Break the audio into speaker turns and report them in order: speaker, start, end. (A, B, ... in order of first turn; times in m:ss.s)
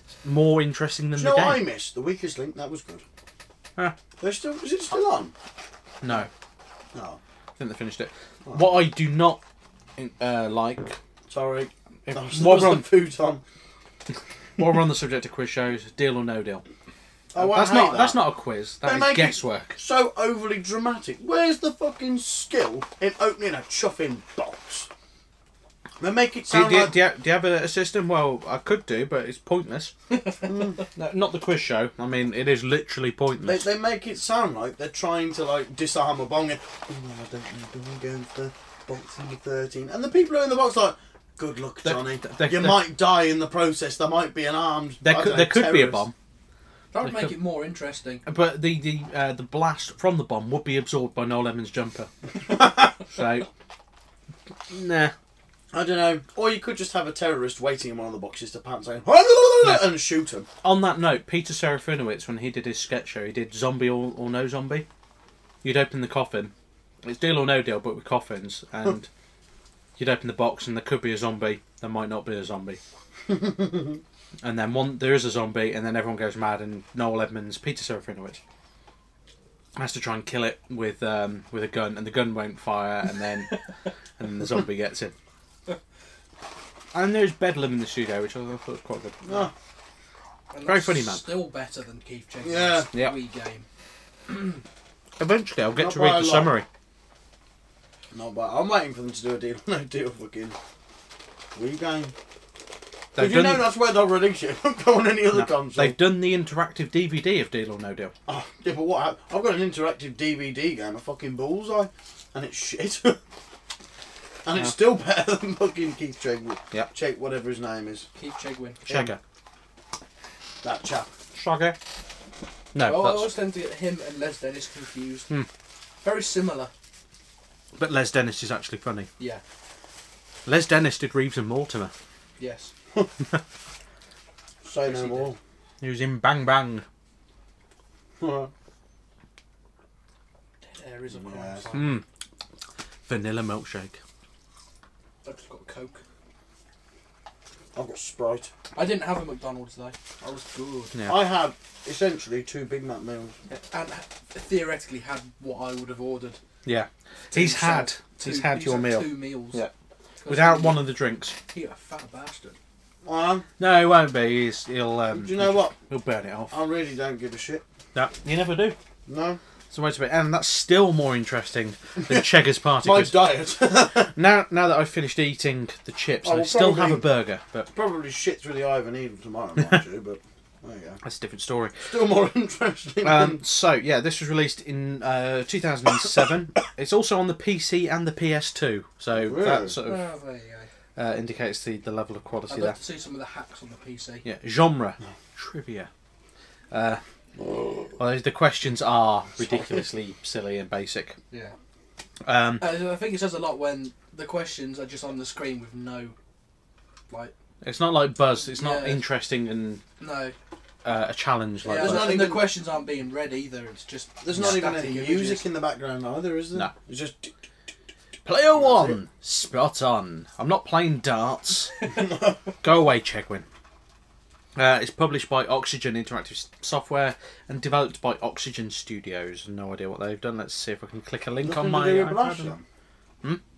0:00.2-0:01.6 A
0:01.1-0:03.0 B
0:04.2-0:05.3 B
0:06.0-0:06.3 A
0:06.9-0:07.2 B
0:07.6-0:09.4 A
0:10.0-0:11.0 A
0:11.3-0:13.4 B
0:12.1-0:12.9 A
0:14.6-0:16.6 A
0:17.3-0:18.3 B
0:17.4-0:19.8 A
0:18.8-0:24.9 B
0:26.0-0:26.9 B
0:26.5-0:29.9 A
0:30.4-0:30.9 B
0:30.9-0:33.7 A
0:33.4-0:46.1 B
0:41.8-0:42.9 A
0:45.0-0:46.1 A
0:46.9-0:48.2 C
0:47.0-0:47.4 A
0:48.2-0:53.5 A
0:54.7-0:55.1 A
0:55.7-1:00.5 B
0:59.6-0:59.9 A
1:00.6-1:04.8 A
1:05.6-1:06.5 A
1:07.0-1:09.1 A
1:10.0-1:12.8 A
1:13.3-1:14.0 B
1:14.4-1:18.4 A
1:19.8-1:23.5 A
1:24.2-1:25.1 A
1:26.9-1:29.5 A
1:29.2-1:29.5 B
1:30.5-1:33.6 C
1:30.6-1:31.3 A
1:32.4-1:32.9 B
1:34.3-1:34.6 C
1:35.2-1:36.6 A
1:35.7-1:36.6 B
1:38.1-1:40.6 B
1:41.5-1:42.1 B
1:43.2-1:43.7 A
1:43.2-1:46.0 B
1:45.3-1:48.1 A
1:48.3-1:53.2 B
1:54.4-1:58.1 B
1:58.2-1:58.8 C
1:58.9-1:59.1 B
1:58.9-1:59.2 A
2:00.6-2:01.1 B
2:01.3-2:01.8 A
2:02.7-2:03.3 A
2:02.8-2:05.3 C
2:06.0-2:06.7 C
2:07.8-2:09.1 A
2:10.4-2:11.9 A
2:12.4-2:12.7 C
2:14.6-2:15.4 B
2:14.8-2:15.3 C
2:15.8-2:16.8 A
2:18.2-2:18.5 B
2:20.6-2:22.0 C
2:21.1-2:21.7 B
2:21.7-2:22.0 A
2:23.1-2:24.0 A
2:25.2-2:26.0 C
2:27.7-2:28.5 B
2:28.8-2:30.9 C
2:30.9-2:31.2 A
2:31.0-2:33.3 B
2:33.5-2:36.4 C
2:36.6-2:39.7 A
2:37.3-2:39.6 C
2:40.2-2:40.9 C
2:40.3-2:41.4 A
2:41.5-2:42.6 C
2:43.0-2:43.5 B
2:43.6-2:46.5 A
2:45.1-2:45.8 B
2:46.5-2:47.6 B
2:47.9-2:48.8 A
2:49.1-2:49.4 B
2:49.7-2:53.2 A
2:52.8-2:54.1 B
2:54.1-2:57.7 A
2:56.2-2:57.1 B
2:57.7-3:01.0 B
3:01.0-3:01.8 A
3:01.8-3:03.4 B
3:03.0-3:10.0 A
3:09.1-3:09.8 B
3:09.8-3:10.7 C
3:11.0-3:12.8 A
3:12.5-3:14.2 C
3:14.2-3:15.9 A
3:16.7-3:17.0 A
3:17.4-3:18.0 B
3:18.0-3:21.2 A
3:19.4-3:19.7 B
3:22.2-3:22.8 A
3:22.6-3:26.1 C
3:27.6-3:29.8 A
3:28.4-3:29.0 C
3:30.0-3:30.3 C
3:30.8-3:32.2 A
3:31.6-3:35.4 C
3:31.6-3:32.5 B
3:34.2-3:37.3 B
3:38.2-3:41.7 A
3:38.5-3:39.0 B
3:41.9-3:42.4 B
3:42.6-3:43.4 A
3:44.6-3:52.5 A
3:51.4-3:52.6 B